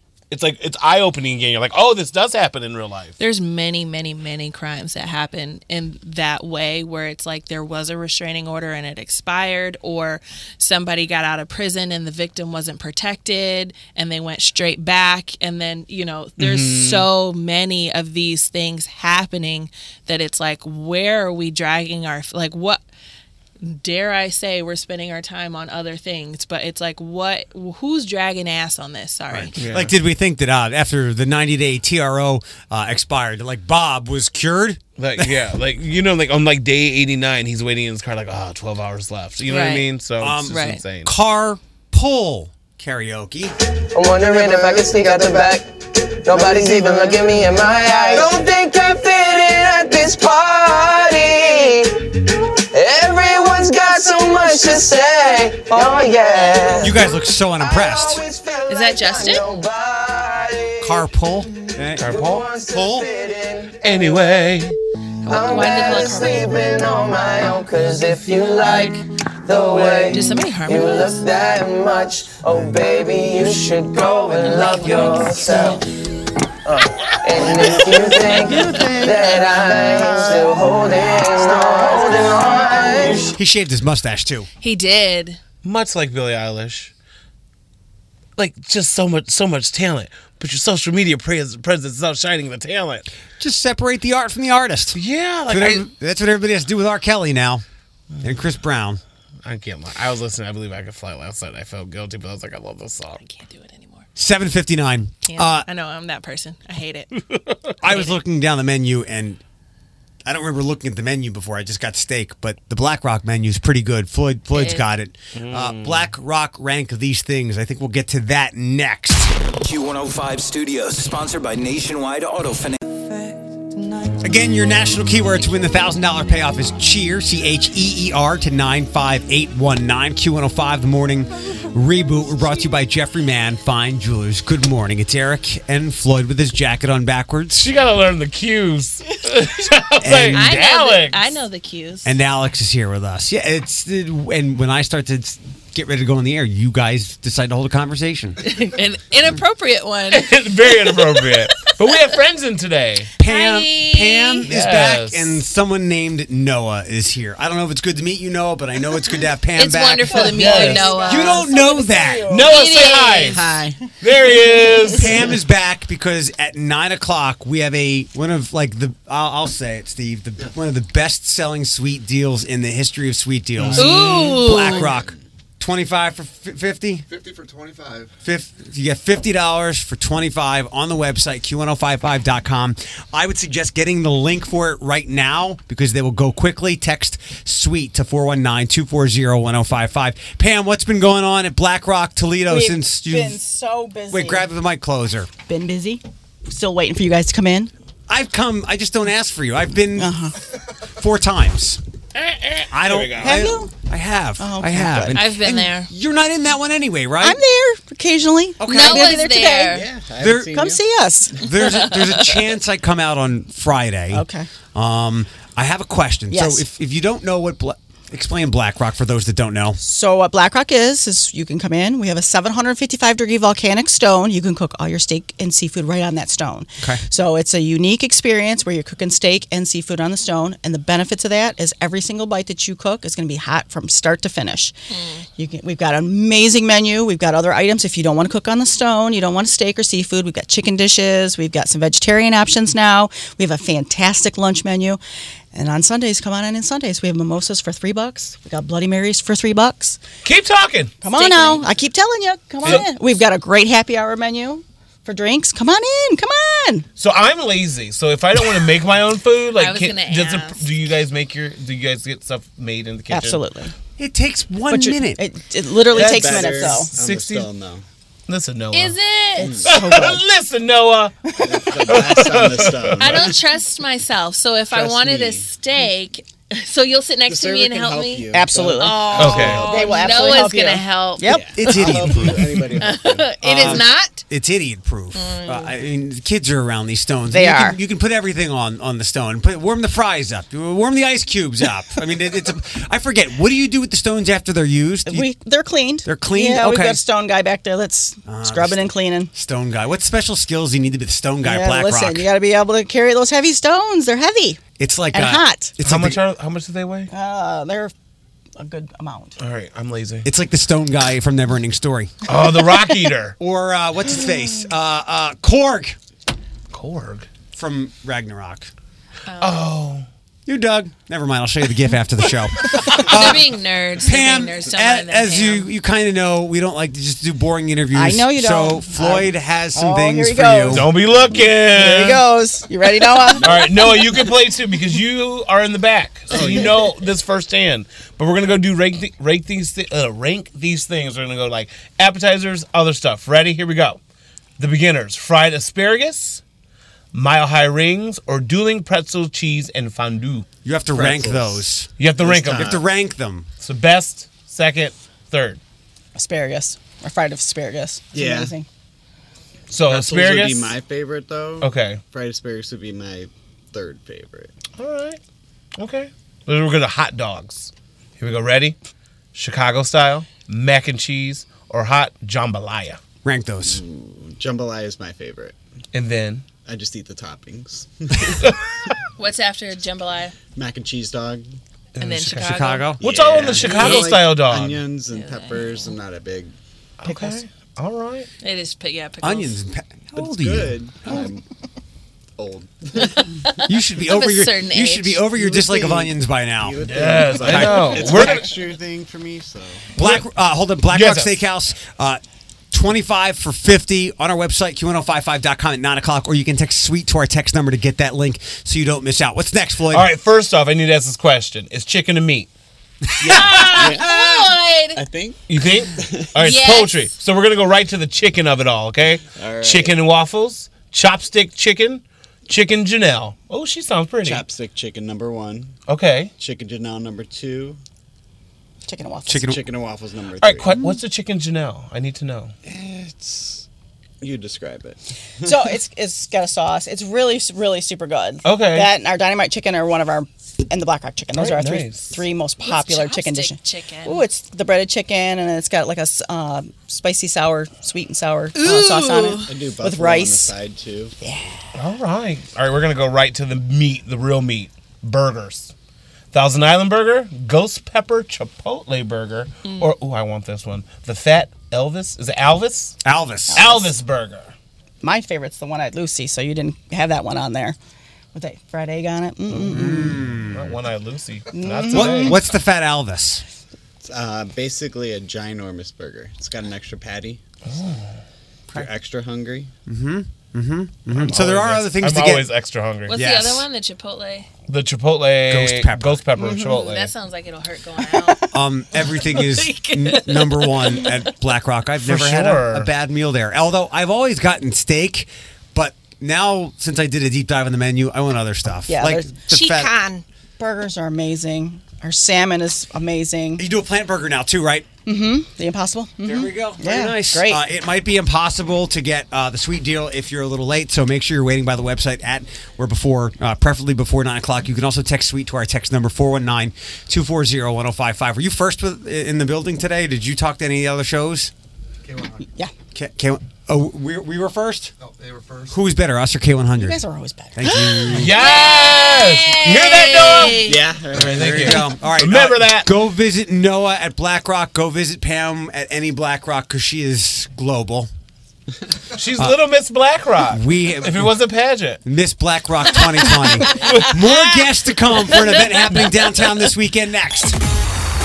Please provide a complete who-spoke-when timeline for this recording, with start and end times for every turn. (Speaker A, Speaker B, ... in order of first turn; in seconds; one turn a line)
Speaker A: 0.3-3.2
Speaker B: 3.2-22.8
Speaker A: 16.4-17.1
Speaker B: 23.6-29.5
Speaker C: 29.3-35.4
Speaker A: 29.6-29.9
Speaker A: 35.0-41.1
Speaker B: 39.5-39.9
Speaker C: 40.2-43.5
Speaker B: 40.5-40.8
Speaker D: 43.9-52.2
Speaker D: 52.7-61.0
Speaker C: 56.8-58.2
Speaker B: 58.7-59.5
Speaker C: 60.8-62.1
Speaker D: 62.0-64.0
Speaker A: 62.0-62.4
Speaker C: 62.7-63.1
Speaker A: 63.8-64.8
Speaker B: 65.3-66.5
Speaker D: 65.3-75.8
Speaker B: 70.1-71.2
Speaker B: 74.5-75.7
Speaker D: 76.7-83.3
Speaker C: 83.4-84.5
Speaker B: 84.6-85.4
Speaker A: 85.6-86.9
Speaker A: 88.4-93.1
Speaker C: 93.4-97.6
Speaker A: 95.0-95.9
Speaker C: 98.2-99.0
Speaker A: 99.5-103.2
Speaker B: 103.2-104.1
Speaker C: 104.2-105.7
Speaker B: 105.2-107.2
Speaker A: 107.3-107.8
Speaker C: 107.8-109.4
Speaker B: 107.8-108.1
Speaker C: 110.2-119.3
Speaker B: 114.5-114.9
Speaker A: 115.3-116.1
Speaker E: 119.6-122.8
Speaker C: 124.2-137.7
Speaker A: 137.6-141.3
Speaker C: 140.0-140.5
Speaker B: 140.3-142.2
Speaker C: 142.0-148.4
Speaker B: 148.4-151.9
Speaker A: 150.1-153.1
Speaker B: 153.2-154.5
Speaker C: 153.2-162.5
Speaker A: 154.5-155.4
Speaker B: 159.6-161.6
Speaker F: 160.1-163.9
Speaker A: 160.2-160.9
Speaker A: 162.3-163.4
Speaker B: 162.5-163.3
Speaker A: 164.0-165.1
Speaker F: 164.6-165.3
Speaker C: 164.9-177.2
Speaker B: 173.7-174.9
Speaker A: 173.8-174.2
Speaker C: 178.2-193.4
Speaker F: 192.5-194.5
Speaker C: 194.1-195.3
Speaker F: 195.5-197.7
Speaker C: 198.1-200.2
Speaker F: 200.0-200.3
Speaker C: 200.9-201.8
Speaker A: 202.2-203.5
Speaker C: 202.7-207.4
Speaker F: 203.2-203.7
Speaker F: 204.4-205.3
Speaker B: 205.1-205.9
Speaker F: 207.2-209.9
Speaker C: 208.6-209.4
Speaker B: 208.6-209.9
Speaker G: 209.7-210.8
Speaker C: 210.2-210.6
Speaker F: 210.5-211.4
Speaker C: 211.3-219.8
Speaker F: 214.1-214.5
Speaker F: 216.3-216.7
Speaker F: 219.8-234.8
Speaker B: 234.9-235.3
Speaker F: 235.4-245.0
Speaker F: 245.5-250.0
Speaker A: 250.2-251.0
Speaker F: 251.0-256.9
Speaker B: 251.1-251.6
Speaker A: 257.0-263.4
Speaker B: 259.6-260.7
Speaker F: 263.1-263.7
Speaker C: 264.0-265.2
Speaker F: 264.7-266.9
Speaker G: 265.9-267.8
Speaker A: 265.9-267.5
Speaker A: 268.3-269.0
Speaker B: 268.7-269.6
Speaker G: 269.4-269.7
Speaker F: 269.6-270.2
Speaker A: 269.6-271.2
Speaker F: 271.3-271.8
Speaker G: 271.4-273.4
Speaker A: 271.9-273.2
Speaker B: 273.0-282.0
Speaker G: 274.7-275.5
Speaker G: 277.3-280.5
Speaker F: 278.3-281.6
Speaker A: 279.2-279.7
Speaker G: 281.2-283.9
Speaker C: 281.5-282.7
Speaker B: 282.8-284.2
Speaker C: 283.4-295.3
Speaker B: 285.1-285.7
Speaker F: 287.3-287.8
Speaker F: 295.1-299.3
Speaker C: 296.0-297.0
Speaker C: 298.3-302.3
Speaker F: 301.4-304.6
Speaker C: 304.8-306.2
Speaker F: 305.1-305.7
Speaker A: 305.8-307.1
Speaker F: 307.1-307.9
Speaker F: 308.6-309.4
Speaker A: 309.4-310.3
Speaker C: 310.2-312.1
Speaker A: 312.3-313.4
Speaker C: 313.4-316.0
Speaker A: 316.7-317.3
Speaker C: 317.6-318.7
Speaker B: 319.3-319.7
Speaker A: 319.4-320.1
Speaker C: 320.5-330.9
Speaker B: 323.0-325.7
Speaker F: 327.9-330.9
Speaker A: 330.7-332.2
Speaker G: 331.2-331.5
Speaker F: 331.6-333.6
Speaker A: 333.4-344.0
Speaker G: 333.5-334.3
Speaker G: 336.3-336.9
Speaker A: 344.6-346.4
Speaker A: 347.1-350.5
Speaker C: 350.6-353.5
Speaker G: 350.9-351.7
Speaker A: 352.0-352.8
Speaker G: 352.2-352.8
Speaker A: 353.6-355.6
Speaker F: 356.1-358.7
Speaker G: 358.1-358.5
Speaker A: 359.7-360.8
Speaker G: 359.9-364.5
Speaker A: 361.6-362.0
Speaker A: 364.8-365.2
Speaker A: 365.8-368.8
Speaker A: 369.4-373.0
Speaker C: 373.2-373.8
Speaker G: 373.6-375.6
Speaker A: 375.9-376.4
Speaker G: 376.6-378.5
Speaker B: 379.2-380.4
Speaker G: 380.6-381.5
Speaker A: 382.0-384.8
Speaker B: 382.0-383.0
Speaker C: 382.4-383.9
Speaker G: 383.0-386.5
Speaker B: 383.8-384.1
Speaker B: 385.0-386.0
Speaker A: 387.0-388.3
Speaker B: 388.4-389.6
Speaker C: 389.2-391.1
Speaker G: 390.1-391.4
Speaker G: 392.4-393.3
Speaker B: 393.0-395.2
Speaker C: 393.6-398.3
Speaker G: 395.2-399.9
Speaker A: 396.8-398.5
Speaker A: 400.0-400.2
Speaker C: 400.0-402.2
Speaker A: 400.9-401.4
Speaker C: 402.7-410.1
Speaker A: 409.9-412.5
Speaker A: 413.2-413.8
Speaker C: 413.2-413.5
Speaker B: 413.3-415.0
Speaker G: 413.7-414.2
Speaker G: 415.0-416.3
Speaker A: 415.5-424.4
Speaker B: 416.4-417.1
Speaker G: 419.4-420.0
Speaker G: 424.2-425.8
Speaker A: 425.9-426.3
Speaker G: 426.4-427.8
Speaker F: 428.9-429.5
Speaker C: 429.3-429.6
Speaker G: 429.4-430.8
Speaker A: 430.4-432.5
Speaker G: 432.6-433.7
Speaker G: 434.2-435.5
Speaker F: 435.4-450.5
Speaker A: 438.4-438.9
Speaker A: 441.4-442.2
Speaker B: 442.6-444.2
Speaker G: 449.4-451.1
Speaker F: 451.2-451.6
Speaker A: 451.8-455.7
Speaker A: 456.3-463.0
Speaker C: 463.0-463.9
Speaker F: 463.5-463.9
Speaker A: 463.5-464.5
Speaker F: 465.0-467.8
Speaker F: 468.3-470.2
Speaker C: 469.6-470.8
Speaker A: 470.0-472.4
Speaker F: 471.5-472.4
Speaker C: 471.9-473.4
Speaker G: 474.0-477.4
Speaker A: 477.7-478.1
Speaker G: 478.7-479.7
Speaker C: 479.9-482.5
Speaker A: 481.1-483.2
Speaker B: 483.1-484.5
Speaker C: 483.1-483.7
Speaker A: 484.7-487.1
Speaker C: 485.5-486.3
Speaker F: 486.4-486.7
Speaker B: 486.7-488.4
Speaker C: 488.5-499.9
Speaker B: 489.4-491.3
Speaker A: 492.0-492.9
Speaker F: 498.9-499.4
Speaker B: 499.5-500.2
Speaker F: 500.6-503.6
Speaker C: 503.6-504.9
Speaker F: 505.1-507.6
Speaker C: 506.2-521.5
Speaker F: 522.4-522.7
Speaker C: 522.9-524.9
Speaker C: 525.6-527.0
Speaker F: 526.8-528.2
Speaker C: 527.5-528.4
Speaker A: 528.1-532.9
Speaker B: 528.4-530.8
Speaker G: 530.5-531.8
Speaker C: 531.1-538.1
Speaker A: 539.1-542.0
Speaker C: 540.4-541.4
Speaker C: 542.0-547.6
Speaker A: 543.7-544.1